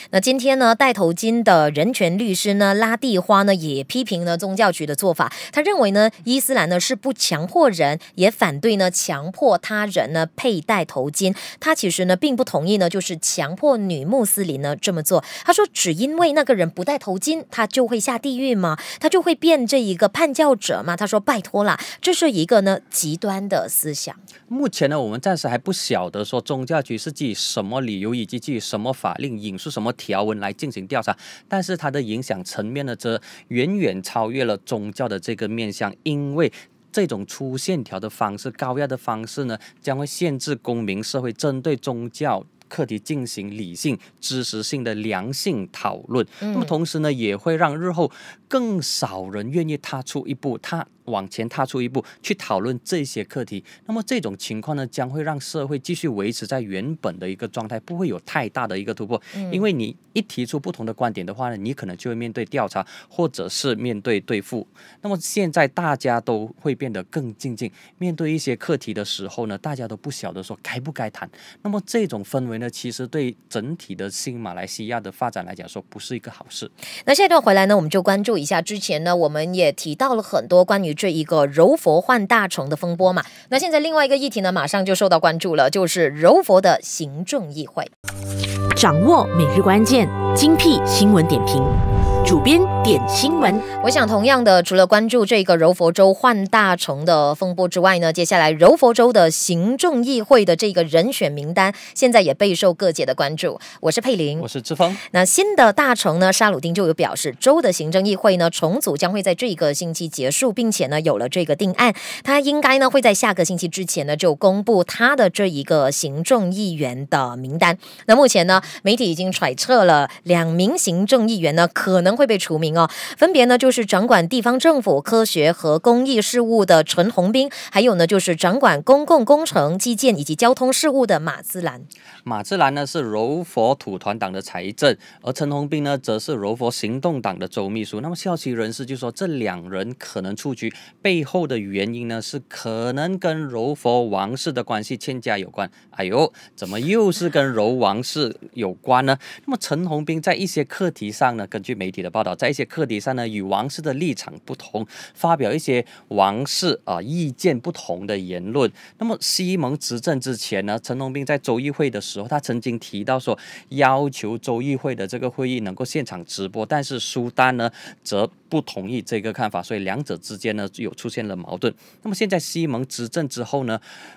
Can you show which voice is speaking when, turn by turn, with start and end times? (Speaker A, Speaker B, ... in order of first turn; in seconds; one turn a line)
Speaker A: 0.1-24.2
Speaker B: 24.5-76.7
Speaker A: 46.4-46.7
Speaker A: 59.3-59.6
Speaker A: 77.0-87.9
Speaker C: 88.8-93.6
Speaker A: 93.8-104.5
Speaker B: 104.4-105.0
Speaker A: 105.1-131.9
Speaker B: 132.2-173.8